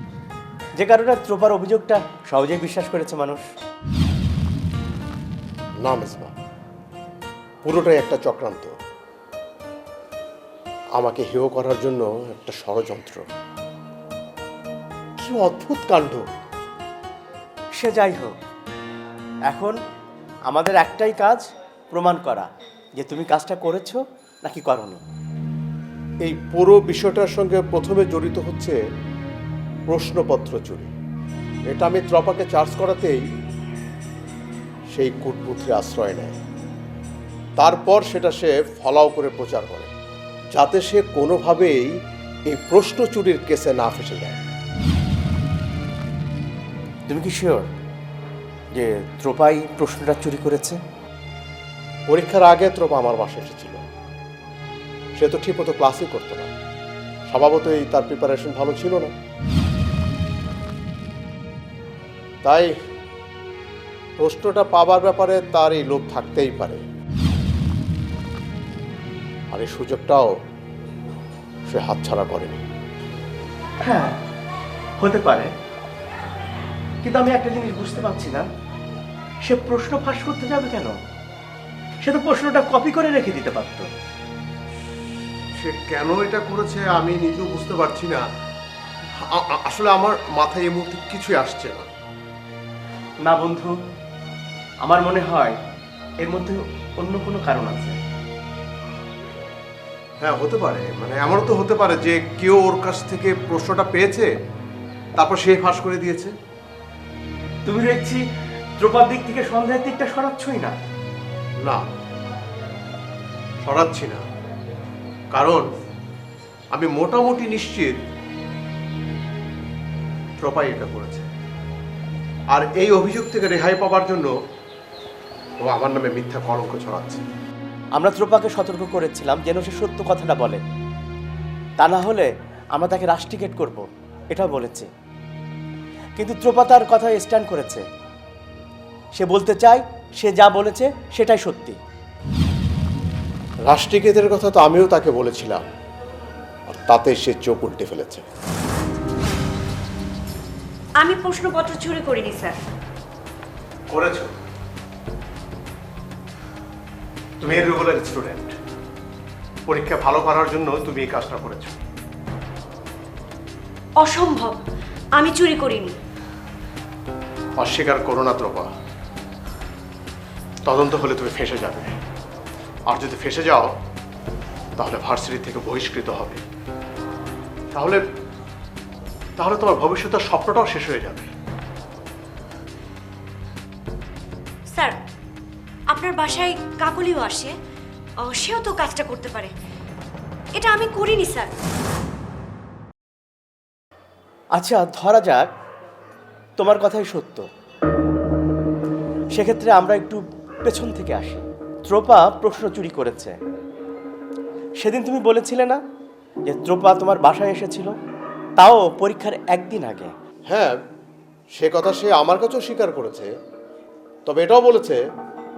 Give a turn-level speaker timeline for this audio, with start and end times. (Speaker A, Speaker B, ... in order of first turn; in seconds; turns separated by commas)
Speaker A: 0.8-3.4, Speaker B: 5.8-6.3, Speaker B: 7.6-8.7, Speaker B: 11.0-13.3, Speaker B: 15.2-16.3, Speaker A: 17.8-18.3, Speaker A: 19.5-19.8, Speaker A: 20.5-25.0, Speaker B: 26.2-28.8, Speaker B: 29.9-30.9, Speaker B: 31.7-33.3, Speaker B: 34.9-36.4, Speaker B: 37.6-39.9, Speaker B: 40.5-41.9, Speaker B: 42.5-44.4, Speaker A: 47.1-47.7, Speaker A: 48.8-50.8, Speaker B: 52.1-53.8, Speaker B: 55.2-56.5, Speaker B: 57.3-59.1, Speaker B: 62.4-62.7, Speaker B: 64.2-66.8, Speaker B: 69.5-70.3, Speaker B: 71.7-72.6, Speaker A: 73.8-74.2, Speaker A: 75.0-75.5, Speaker A: 77.0-78.5, Speaker A: 79.5-81.0, Speaker A: 82.0-83.9, Speaker B: 85.6-88.2, Speaker B: 89.3-91.9, Speaker A: 93.2-93.7, Speaker A: 94.8-95.5, Speaker A: 96.2-98.0, Speaker B: 100.2-104.3, Speaker B: 105.2-106.3, Speaker A: 107.7-108.2, Speaker A: 108.8-110.8, Speaker B: 113.6-114.2, Speaker B: 115.3-115.7, Speaker B: 116.7-118.0, Speaker B: 120.4-121.3, Speaker B: 122.5-124.3, Speaker B: 125.7-127.2, Speaker A: 128.0-130.6, Speaker A: 131.8-134.9, Speaker A: 136.2-137.8, Speaker A: 139.2-141.8, Speaker B: 143.7-145.6, Speaker B: 146.7-148.3, Speaker C: 151.1-152.6, Speaker B: 153.9-154.3, Speaker B: 157.4-158.6, Speaker B: 159.7-161.8, Speaker C: 164.0-164.6, Speaker C: 165.2-165.9, Speaker B: 167.6-168.7, Speaker B: 170.7-171.9, Speaker B: 172.9-173.7, Speaker B: 174.8-176.4, Speaker B: 177.7-178.0, Speaker B: 179.4-181.3, Speaker C: 185.9-187.6, Speaker C: 188.2-189.6, Speaker C: 190.6-191.6, Speaker A: 194.5-195.5, Speaker A: 196.6-197.4, Speaker A: 199.3-203.3, Speaker A: 204.8-205.8, Speaker A: 206.5-207.9, Speaker A: 208.6-210.1, Speaker B: 210.5-210.8, Speaker B: 211.6-213.3, Speaker B: 214.3-215.0